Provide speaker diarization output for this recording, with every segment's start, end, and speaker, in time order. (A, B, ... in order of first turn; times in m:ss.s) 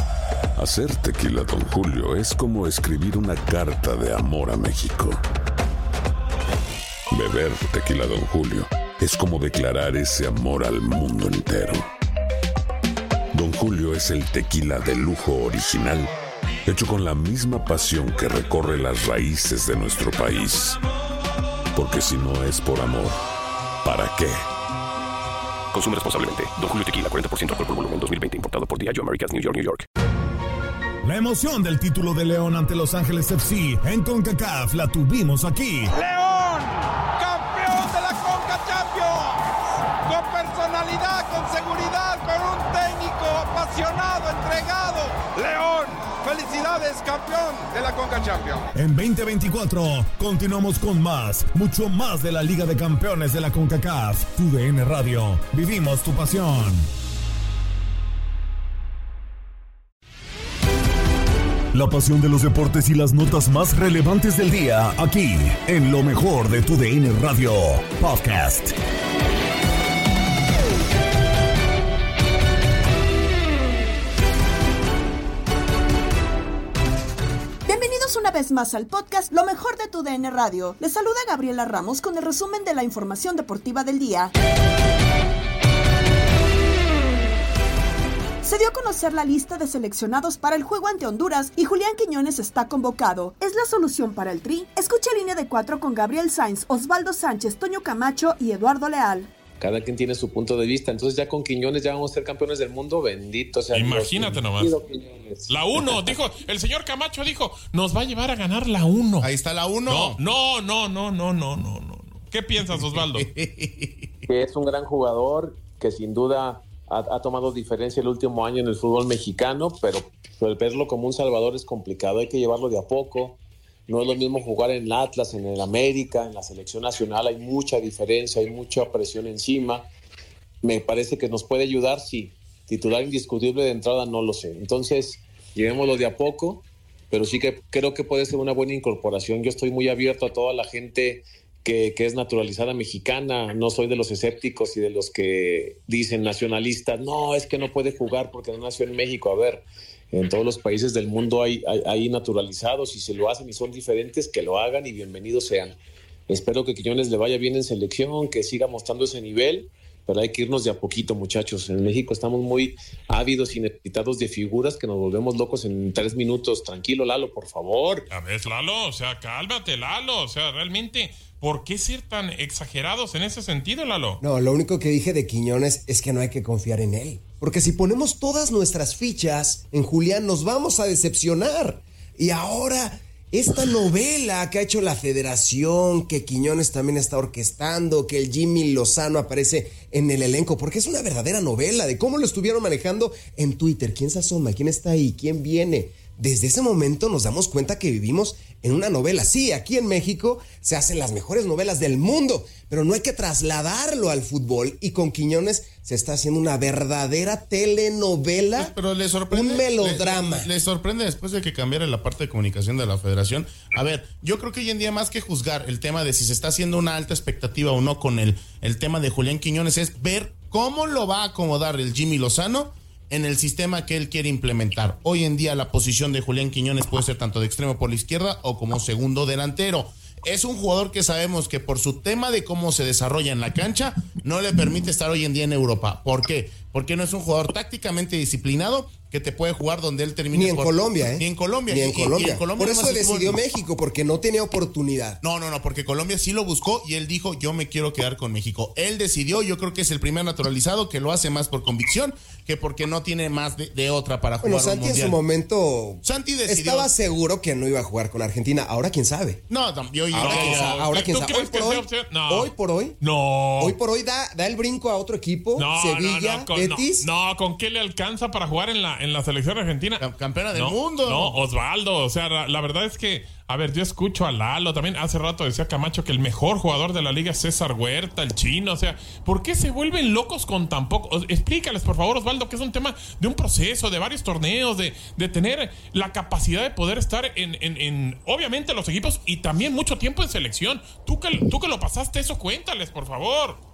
0:00.6-0:05.2 A
0:07.1-0:11.8 A
0:13.3-0:16.1 A
0:16.7-0:20.8 A
0:21.8-0:23.2 A
0:23.8-0:24.4 A
0:25.7-0:29.8 B
0:31.0-0:35.9 C
0:35.9-0:36.7 D
0:37.2-0:39.4 D
0:40.1-0:48.7 D
0:48.8-0:56.9 C
1:01.7-1:08.8 C
1:17.7-1:24.3 E
1:28.4-1:39.3 E
1:39.6-1:46.2 F
1:43.7-1:44.8 G
1:45.5-1:49.3 G
1:49.2-1:50.2 H
1:49.9-1:53.3 G
1:52.7-1:54.1 H
1:54.3-2:09.9 F
2:10.6-2:35.8 F
2:36.3-2:48.1 F
2:48.1-2:54.2 G
2:54.2-3:28.7 I
3:28.6-4:03.4 H
3:29.3-3:30.5 I
4:00.3-4:05.2 I
4:05.2-4:15.2 H
4:14.4-4:19.4 I
4:16.0-4:16.9 H
4:19.5-4:20.9 H
4:20.1-4:23.0 I
4:20.1-4:23.8 G
4:23.6-4:27.1 I
4:25.6-4:53.6 G
4:30.0-4:31.3 H